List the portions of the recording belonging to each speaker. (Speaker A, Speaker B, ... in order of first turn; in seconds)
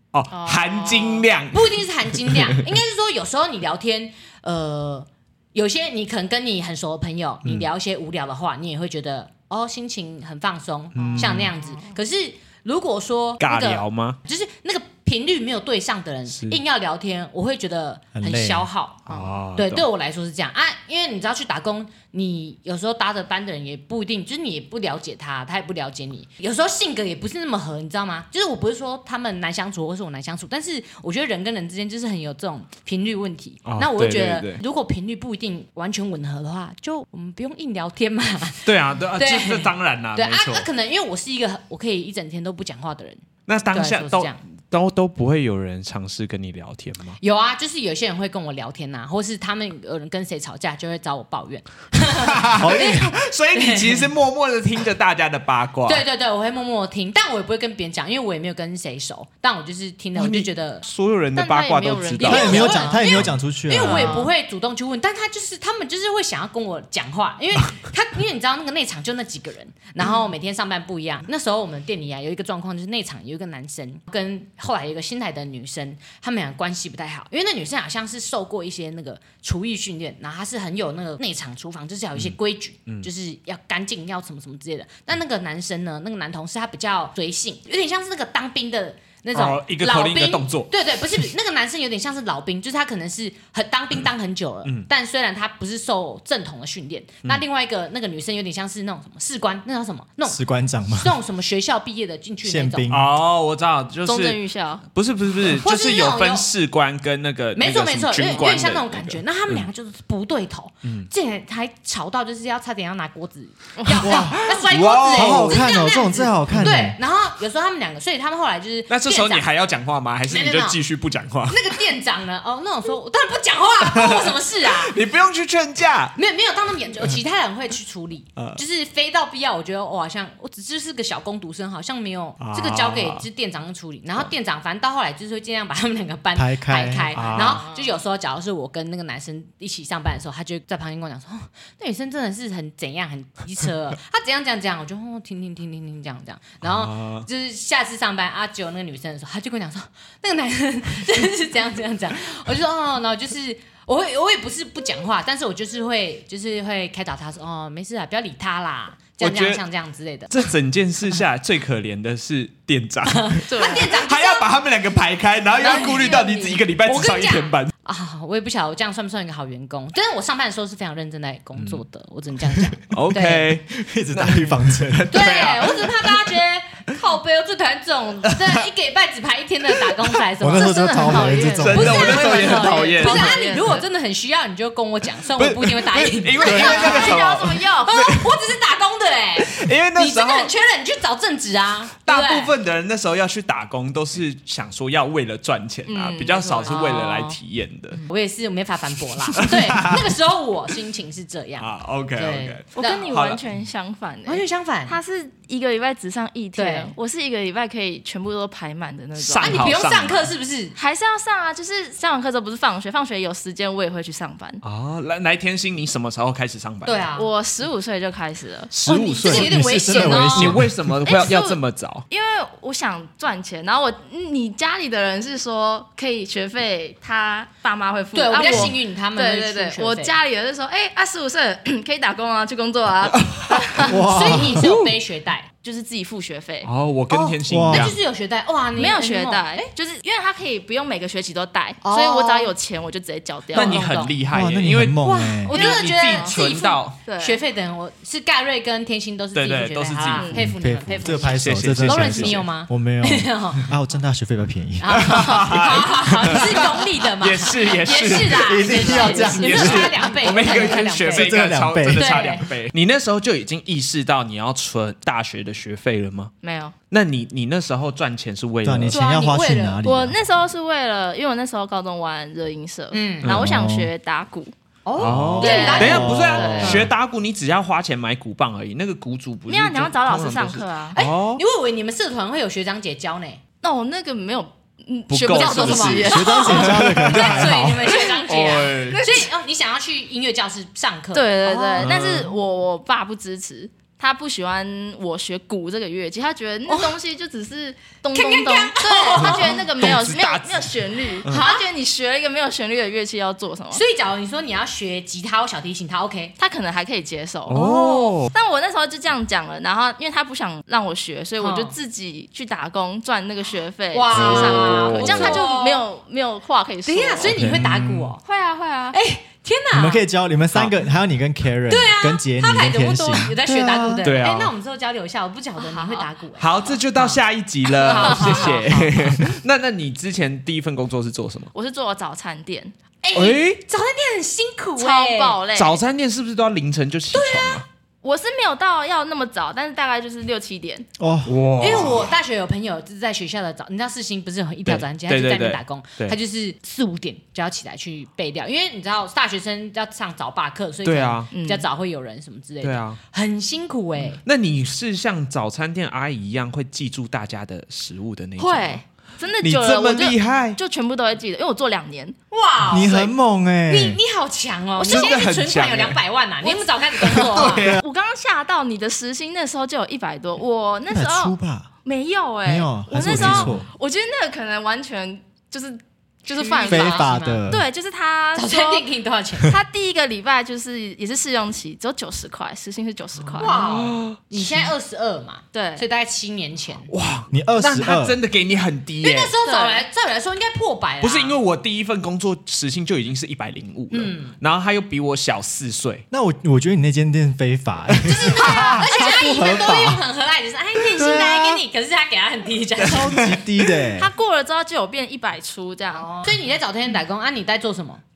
Speaker A: 0.1-2.6, 10.9-11.5, 13.4-14.2, 16.3-16.6, 19.1-19.9, 33.6-34.6, 38.6-40.7, 43.5-47.2, 52.1-56.0, 60.2-62.8, 89.3-91.3, 102.9-109.7, 110.8-111.1, 114.1-115.6, 118.9-121.8, 123.8-126.2, 132.4-133.2, 137.1-137.7, 146.6-147.3, 159.2-159.6, 160.3-167.7, 171.6-171.8, 172.9-176.3, 178.3-178.6, 181.6-183.3, 185.4-188.4, 189.4-190.5, 192.0-198.0, 199.3-200.1, 201.6-203.4, 209.2-210.3, 214.6-217.1, 218.7-222.1, 236.7-238.0, 243.5-247.0, 249.3-250.3, 251.2-252.5, 254.9-266.3, 266.9-269.0, 273.2-273.5, 275.0-281.4, 285.1-287.5, 288.3-289.1, 291.8-292.3, 299.2-301.4, 307.5-308.3, 314.1-315.4, 324.0-324.5, 326.4-331.5, 333.1-333.6, 335.6-337.6, 341.2-342.1, 344.7-346.2, 350.9-351.3, 352.6-353.0, 354.1-358.8, 359.4-360.6, 364.8-366.0, 367.0-367.8, 373.0-373.6, 383.4-384.7, 386.9-389.3, 391.0-396.0, 398.4-398.8, 403.0-403.4
Speaker B: 0.3-1.3, 11.0-12.0, 61.4-63.0, 63.8-64.3, 104.0-104.8, 113.8-114.1, 137.3-137.9, 163.5-163.9, 165.6-166.6, 180.5-183.8, 186.4-187.9, 195.9-197.4, 202.8-209.7, 210.8-214.6, 217.2-220.4, 221.0-234.3, 235.6-236.7, 238.8-244.1, 245.6-246.4, 247.1-247.4, 250.2-250.4, 258.7-259.8, 266.4-266.8, 269.9-274.5, 275.4-276.9, 279.5-281.0, 283.6-289.3, 291.1-303.8, 306.4-307.7, 308.3-317.4, 318.2-319.0, 325.6-326.1, 327.9-328.6, 331.5-332.7, 334.8-335.8, 338.0-340.9, 351.3-351.7, 358.4-362.2, 364.8-365.1, 366.4-378.9, 379.4-383.6, 385.5-385.9, 389.4-389.8, 399.0-399.4, 403.9-406.1
Speaker C: 1.5-19.1, 19.6-43.2, 43.7-44.4, 47.2-54.1, 55.9-60.8, 62.2-102.9, 105.6-106.5, 107.6-119.5, 120.3-120.8, 121.5-125.0, 126.2-160.5, 163.1-164.5, 165.6-173.5, 175.1-187.2, 187.8-192.5, 196.7-197.2, 198.1-203.1, 204.3-205.0, 206.6-206.9, 209.4-210.8, 216.8-217.3, 218.9-220.6, 228.1-230.2, 234.1-235.5, 237.1-239.5, 241.8-242.5, 243.5-244.1, 245.0-253.7, 254.8-261.4, 261.9-262.4, 268.9-269.8, 272.9-273.3, 274.9-276.9, 280.9-283.4, 285.3-292.0, 296.7-297.0, 298.1-299.7, 301.3-301.7, 303.7-306.4, 307.5-308.2, 311.4-311.8, 313.9-315.8, 316.9-318.2, 318.9-320.0, 321.7-327.2, 327.7-329.3, 333.0-335.4, 337.1-337.6, 341.6-354.2, 362.3-363.1, 363.7-367.7, 376.3-377.4, 378.4-379.6, 383.4-386.9, 389.0-391.4, 393.9-394.4, 398.0-403.4, 405.9-408.0
Speaker D: 18.1-18.7, 52.5-53.1, 62.2-64.2, 100.3-101.2, 102.4-103.1, 114.0-114.5, 115.0-117.0, 136.3-137.2, 173.7-175.4, 180.4-182.3, 186.4-187.0, 219.2-220.8, 233.8-234.7, 237.5-237.9, 244.3-245.6, 250.3-255.4, 258.2-260.0, 261.1-262.3, 268.6-270.2, 273.3-273.9, 275.1-276.9, 286.0-288.0, 317.2-318.1, 319.7-324.1, 341.0-342.0, 362.6-364.0, 370.9-371.7, 372.4-373.7, 376.7-377.6, 387.3-388.2, 396.1-400.0, 400.8-401.6, 402.8-404.1